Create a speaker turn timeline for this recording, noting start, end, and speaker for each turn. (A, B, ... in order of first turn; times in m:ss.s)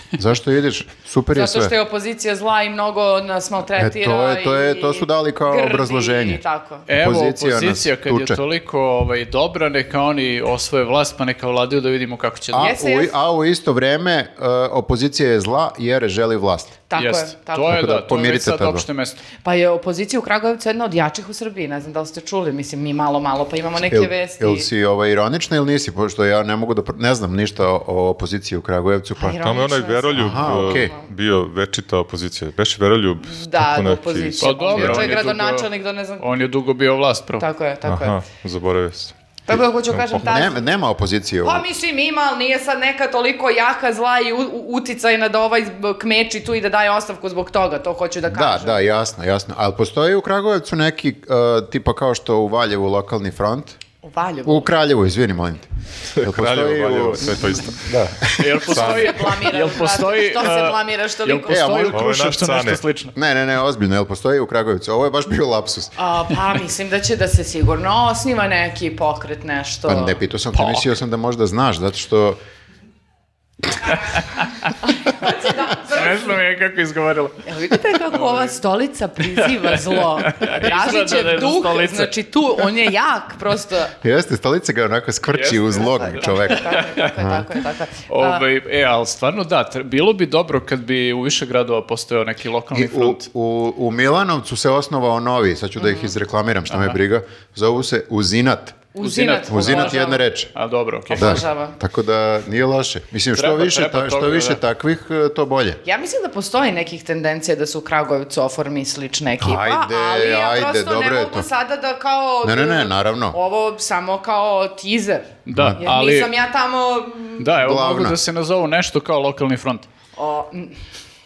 0:00.2-0:01.7 A
0:01.3-0:06.8 B
0:03.8-0:06.4 A
0:06.9-0:12.7 C
0:07.0-0:08.4 A
0:12.5-0:16.8 A
0:12.5-0:13.1 B
0:16.9-0:17.8 B
0:17.0-0:19.2 C
0:17.7-0:18.8 A
0:19.4-0:24.7 B
0:23.9-0:29.4 A
0:29.2-0:31.0 B
0:29.4-0:35.1 D
0:30.2-0:30.9 A
0:33.2-0:36.3 B
0:34.4-0:35.7 C
0:36.2-0:37.4 C
0:37.4-0:38.2 B
0:37.8-0:39.1 D
0:39.5-0:40.6 B
0:39.9-0:40.2 D
0:40.2-0:41.6 A
0:41.4-0:48.8 B
0:48.3-0:53.8 A
0:54.0-0:54.7 B
0:54.4-0:55.7 A
0:56.2-0:59.2 D
0:56.2-0:58.6 A
0:58.4-1:03.1 C
0:58.6-1:01.9 B
1:01.5-1:02.0 A
1:01.9-1:02.8 D
1:03.1-1:05.9 A
1:06.0-1:10.2 B
1:09.9-1:12.4 A
1:10.5-1:10.9 C
1:14.8-1:16.3 B
1:15.8-1:17.4 C
1:17.4-1:23.9 B
1:18.1-1:18.5 C
1:19.6-1:22.1 C
1:24.0-1:27.5 A
1:25.3-1:27.1 C
1:25.8-1:28.4 B
1:28.1-1:33.2 C
1:32.7-1:38.8 A
1:35.8-1:36.1 B
1:36.7-1:36.9 C
1:38.9-1:40.2 B
1:39.0-1:41.4 C
1:39.5-1:40.5 A
1:41.1-1:41.8 B
1:41.1-1:45.8 A
1:43.3-1:44.6 C
1:45.8-1:57.6 B
1:49.4-1:51.5 A
1:52.4-1:53.4 A
1:55.4-1:56.3 C
1:55.5-1:55.8 A
1:57.4-1:59.9 C
1:57.6-1:58.2 A
2:00.2-2:00.7 B